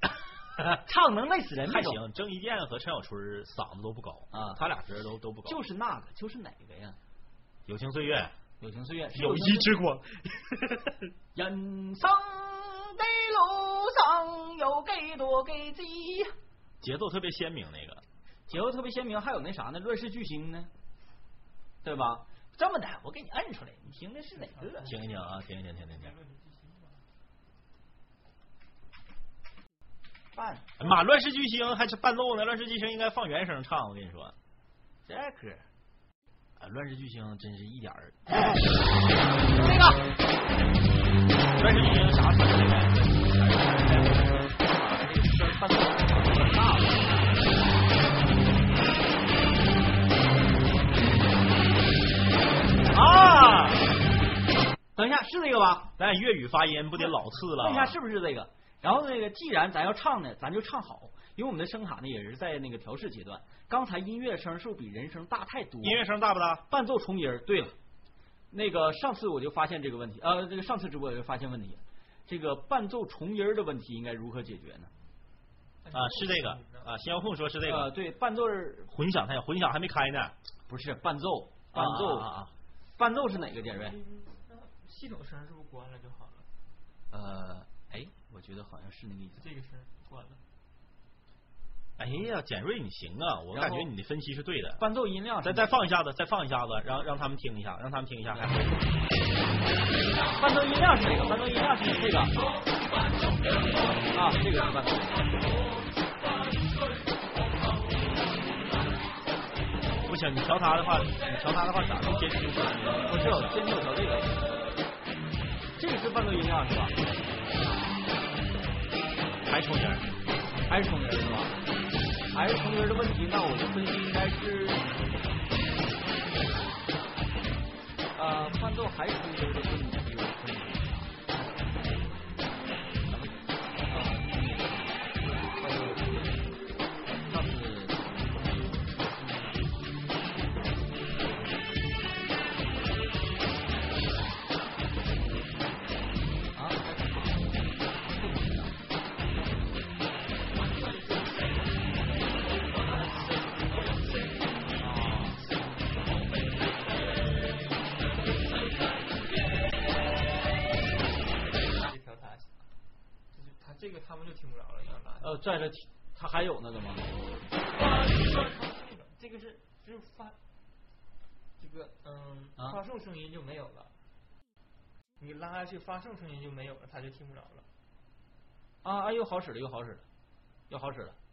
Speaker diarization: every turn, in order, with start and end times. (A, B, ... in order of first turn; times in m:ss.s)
0:00.8-0:02.0 A
0:01.7-0:05.6 B
0:04.3-0:04.6 A
0:05.4-0:07.0 A
0:07.7-0:08.3 B
0:08.6-0:09.7 A
0:09.1-0:11.1 B
0:11.3-0:16.3 A
0:16.8-0:18.0 B
0:18.5-0:20.7 A
0:21.8-0:24.9 A
0:24.5-0:25.1 C
0:24.8-0:26.1 B
0:25.9-0:27.0 C
0:30.3-0:30.9 A
0:30.8-0:34.3 B
0:35.0-0:35.6 A
0:36.6-0:38.6 B
0:39.5-0:40.0 A
0:41.6-0:44.3 B
0:44.6-0:47.2 A
0:52.9-0:53.9 B
0:55.0-0:55.9 A
0:56.0-0:57.9 B
0:57.0-1:06.0 A
1:05.8-1:06.6 B
1:06.7-1:07.8 A
1:08.5-1:14.9 A
1:15.8-1:16.9 C
1:15.9-1:17.9 B
1:17.6-1:18.9 A
1:18.9-1:20.3 B
1:20.7-1:22.3 A
1:21.7-1:22.5 B
1:23.0-1:24.0 A
1:23.7-1:26.5 C
1:27.1-1:29.4 A
1:29.4-1:30.4 C
1:32.0-1:34.8 B
1:33.5-1:33.9 A
1:34.8-1:35.7 A
1:35.4-1:38.8 B
1:40.2-1:42.4 A
1:44.0-1:45.6 A
1:50.0-1:53.5 B
1:53.0-1:54.5 A
1:55.8-1:57.0 A
1:59.4-2:00.1 B
2:00.7-2:01.6 A
2:02.3-2:05.1 A
2:08.1-2:11.6 A
2:13.1-2:13.4 A
2:13.9-2:16.5 A
2:17.2-2:19.6 A
2:26.5-2:28.8 A
2:30.6-2:31.5 C
2:32.7-2:34.6 C
2:34.8-2:35.5 A
2:41.7-2:42.5 C
2:43.3-2:45.3 C
2:45.2-2:47.1 A
2:47.7-2:50.4 C
2:51.6-2:53.9 C
2:55.2-2:57.6 C
2:58.8-3:00.0 A
3:00.7-3:01.2 A